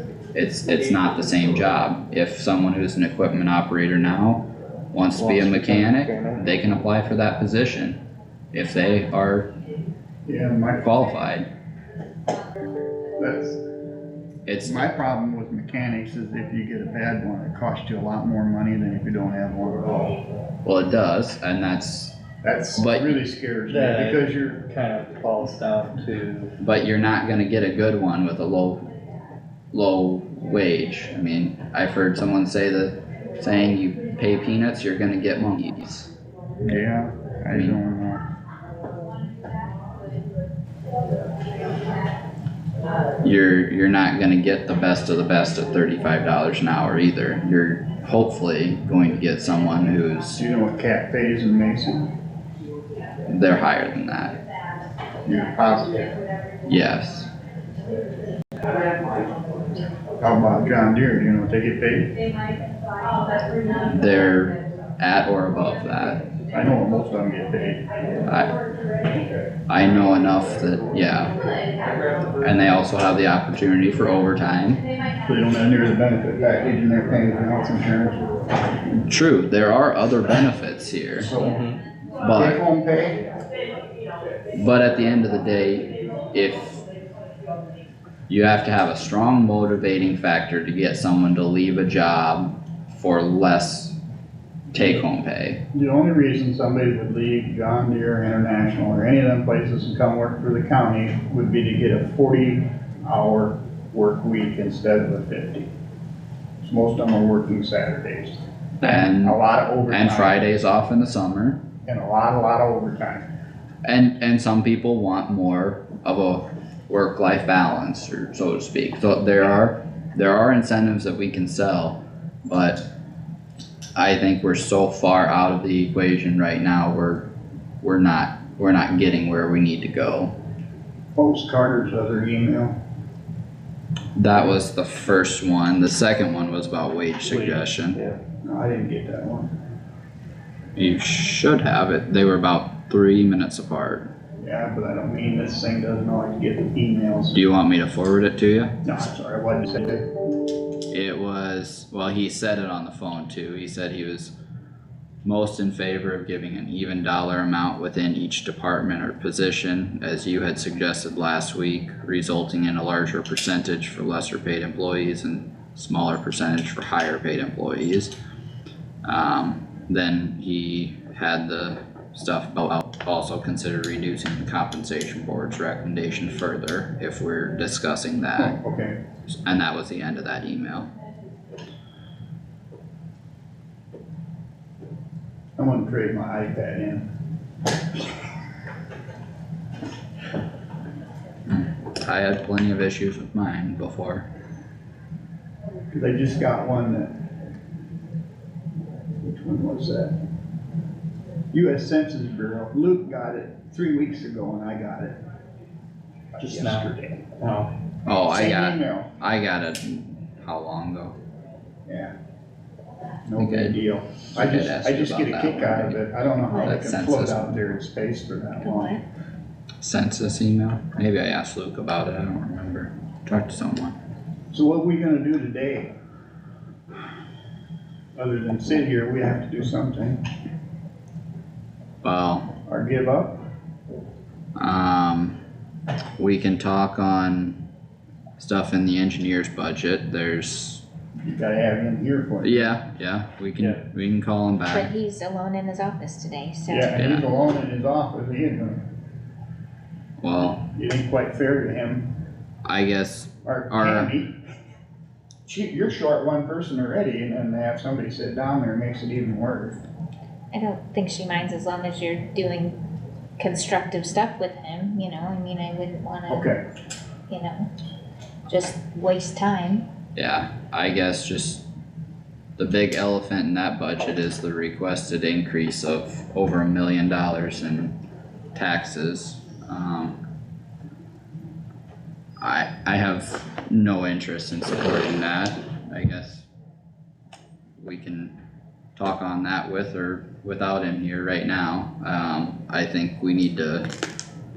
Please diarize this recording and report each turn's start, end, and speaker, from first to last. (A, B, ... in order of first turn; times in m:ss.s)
0:00.3-0:08.0 A
0:05.2-0:06.5 B
0:08.5-0:09.5 A
0:10.3-0:10.9 C
0:10.8-0:11.5 A
0:13.2-0:13.6 C
0:14.5-0:15.1 A
0:14.6-0:20.2 C
0:20.6-0:22.2 A
0:22.4-0:24.6 C
0:22.8-0:23.2 A
0:23.7-0:26.5 B
0:26.6-0:28.9 A
0:29.7-0:36.1 A
0:36.6-0:38.2 C
0:37.5-0:37.8 A
0:43.2-0:50.4 A
0:50.4-0:52.1 C
0:53.3-0:54.4 A
0:55.2-0:56.2 C
0:56.7-0:57.3 A
1:00.2-1:02.2 C
1:03.7-1:06.2 A
1:06.5-1:07.9 C
1:08.3-1:08.6 A
1:09.7-1:11.3 A
1:12.4-1:14.8 A
1:15.3-1:18.3 C
1:19.1-1:21.3 A
1:21.2-1:21.6 C
1:21.4-1:21.8 B
1:22.2-1:22.6 A
1:22.3-1:23.2 C
1:24.5-1:26.8 A
1:28.3-1:34.0 A
1:34.7-1:35.6 A
1:34.7-1:35.1 C
1:35.7-1:45.7 C
1:46.6-1:50.4 C
1:48.8-1:51.6 A
1:51.8-1:53.3 C
1:53.8-2:02.9 A
2:04.0-2:07.3 A
2:07.8-2:10.4 A
2:11.2-2:12.8 C
2:14.2-2:18.0 A
2:17.3-2:18.2 B
2:18.4-2:19.5 C
2:20.8-2:24.1 A
2:24.4-2:27.4 C
2:27.3-2:28.8 A
2:28.8-2:30.1 C
2:30.9-2:34.4 A
2:35.2-2:48.1 A
2:49.0-2:58.6 A
2:58.4-2:59.0 C
2:59.3-3:00.9 A
3:05.6-3:07.1 C
3:11.5-3:14.3 A
3:15.9-3:17.2 C
3:19.2-3:20.2 C
3:21.5-3:25.2 C
3:26.4-3:27.3 C
3:26.4-3:27.7 B
3:28.1-3:31.2 A
3:28.3-3:29.1 C
3:31.9-3:32.1 C
3:33.2-3:39.0 C
3:33.4-3:33.8 A
3:34.4-3:37.6 A
3:36.5-3:36.8 D
3:38.6-3:39.0 D
3:39.8-3:44.0 A
3:44.5-3:45.9 C
3:48.2-3:50.2 C
3:52.0-3:52.5 A
3:52.7-3:53.4 C
3:54.6-3:55.4 A
3:56.2-3:57.6 A
3:58.4-4:00.8 A
4:01.2-4:02.7 C
4:02.4-4:04.9 A
4:04.7-4:07.0 D
4:06.7-4:08.8 C
4:06.9-4:07.3 A
4:10.2-4:10.6 A
4:10.7-4:12.1 C
4:12.6-4:14.1 A
4:13.4-4:14.4 C
4:15.5-4:19.8 C
4:20.5-4:22.8 D
4:23.4-4:26.5 D
4:26.3-4:26.6 C
4:27.3-4:27.7 D
4:28.5-4:29.8 D
4:30.2-4:31.6 A
4:32.6-4:38.0 A
4:38.5-4:40.2 A
4:42.4-4:46.5 A
4:47.8-4:48.4 A
4:49.0-4:53.9 A